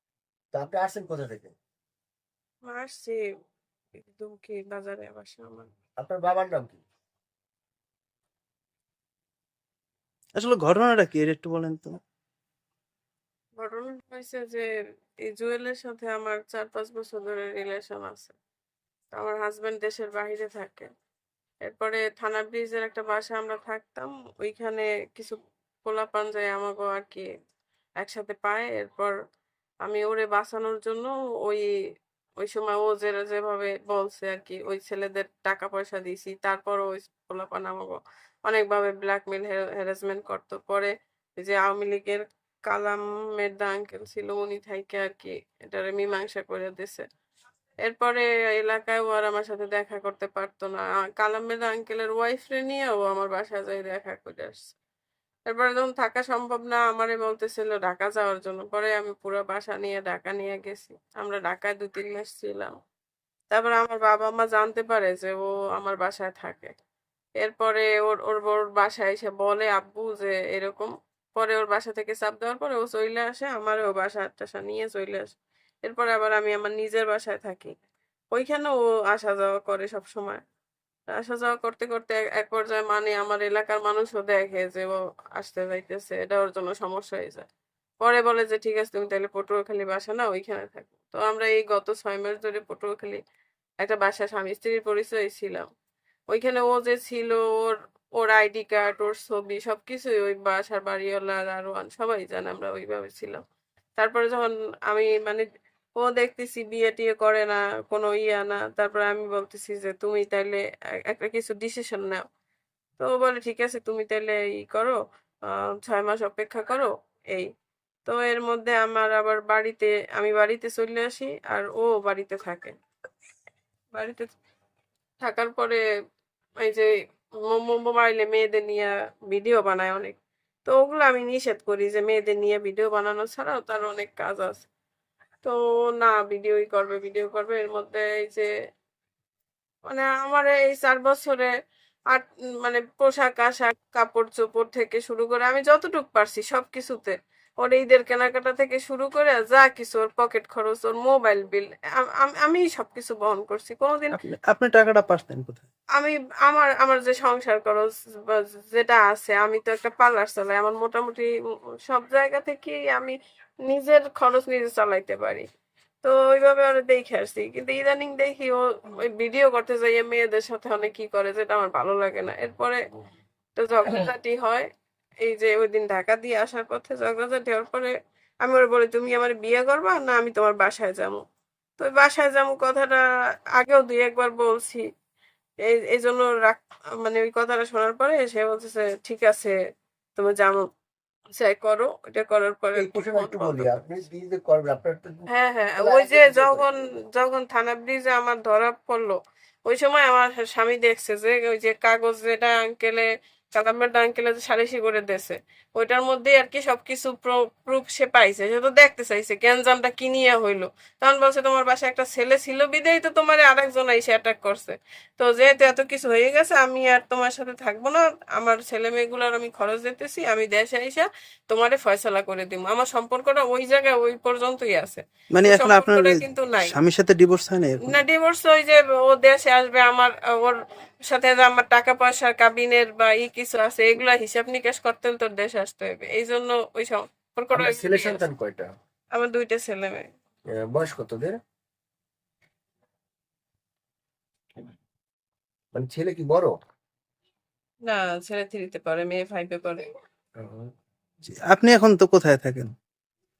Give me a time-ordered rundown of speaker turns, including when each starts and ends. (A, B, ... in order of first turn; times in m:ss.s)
0:00.5-0:01.5 A
0:02.7-0:03.2 B
0:04.2-0:05.7 B
0:06.0-0:06.8 A
0:10.3-0:12.0 C
0:13.6-0:14.7 B
0:15.2-0:18.4 B
0:19.1-0:20.9 B
0:21.6-0:27.3 B
0:28.0-0:29.1 B
0:29.8-0:31.7 B
0:32.4-0:47.0 B
0:47.8-0:54.7 B
0:55.5-1:02.7 B
1:03.5-1:06.7 B
1:07.4-1:17.7 B
1:18.3-1:20.4 B
1:21.1-1:27.4 B
1:28.0-1:33.2 B
1:33.8-1:35.7 B
1:36.3-1:43.4 B
1:44.0-1:45.4 B
1:46.0-1:52.2 B
1:53.0-1:55.0 B
1:55.5-1:57.5 B
1:58.0-2:02.7 B
2:03.9-2:04.3 B
2:05.2-2:05.8 B
2:06.6-2:06.9 B
2:07.5-2:14.7 B
2:15.4-2:18.5 B
2:19.9-2:21.5 B
2:22.1-2:34.2 B
2:34.1-2:35.6 C
2:36.0-2:41.3 B
2:41.8-2:45.4 B
2:46.0-2:52.8 B
2:53.6-2:54.7 B
2:55.2-2:57.9 B
2:58.4-3:01.2 B
3:01.8-3:03.0 B
3:03.6-3:04.8 B
3:05.6-3:09.5 B
3:10.2-3:10.6 B
3:11.4-3:13.8 B
3:12.8-3:15.1 A
3:15.3-3:46.8 B
3:15.8-3:16.7 A
3:45.3-3:48.0 C
3:47.8-3:50.6 B
3:51.1-3:58.2 B
3:57.5-3:58.7 A
3:59.2-4:00.1 B
4:00.5-4:01.4 A
4:05.7-4:06.6 A
4:07.9-4:09.9 B
4:10.4-4:10.7 A
4:11.3-4:12.7 C